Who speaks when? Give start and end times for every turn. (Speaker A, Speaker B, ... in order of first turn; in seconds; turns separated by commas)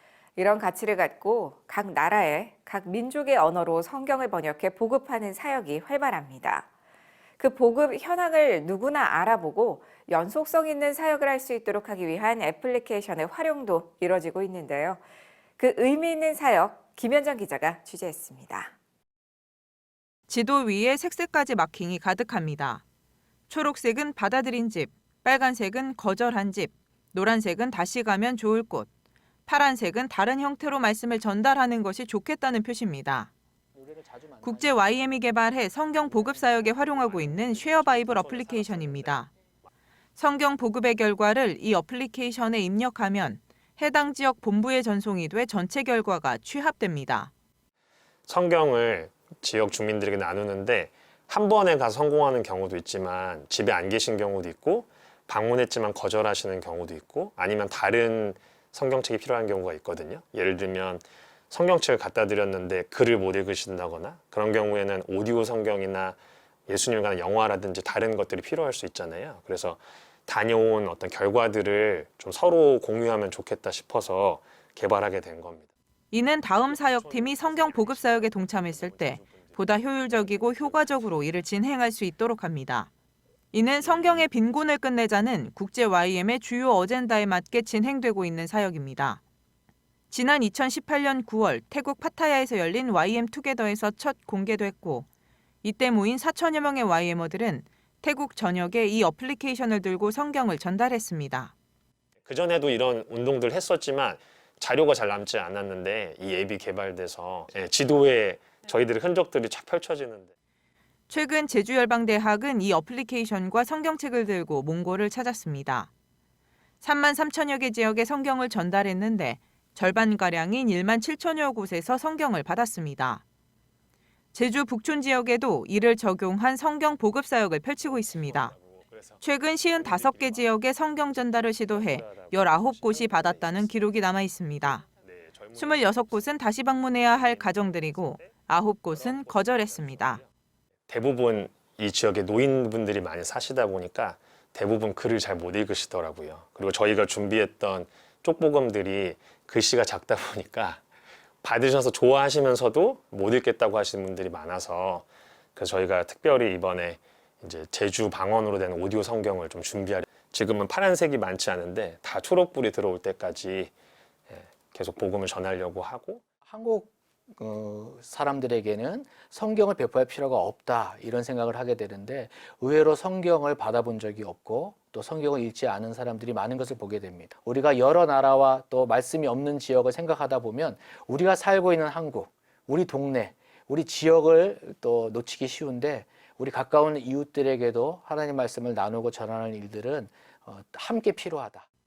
Speaker A: 0.4-6.7, Speaker A: 7.4-15.0, Speaker A: 15.6-18.7, Speaker B: 20.3-22.8, Speaker B: 23.5-28.9, Speaker B: 29.5-33.3, Speaker C: 33.7-36.9, Speaker B: 34.4-39.3, Speaker D: 36.9-39.3, Speaker B: 40.2-47.3, Speaker D: 48.3-66.2, Speaker D: 66.7-75.7, Speaker B: 76.1-82.9, Speaker D: 76.6-81.2, Speaker B: 83.5-89.2, Speaker D: 83.8-84.3, Speaker B: 90.1-95.1, Speaker B: 95.6-101.5, Speaker D: 102.2-110.3, Speaker B: 111.1-115.9, Speaker B: 116.8-123.2, Speaker B: 124.3-128.5, Speaker D: 127.8-129.2, Speaker B: 129.2-134.8, Speaker D: 129.8-130.5, Speaker D: 131.7-133.9, Speaker D: 134.6-136.4, Speaker B: 135.5-140.2, Speaker D: 137.1-140.3, Speaker D: 140.9-150.8, Speaker D: 151.4-163.7, Speaker D: 164.3-166.2, Speaker C: 166.4-191.7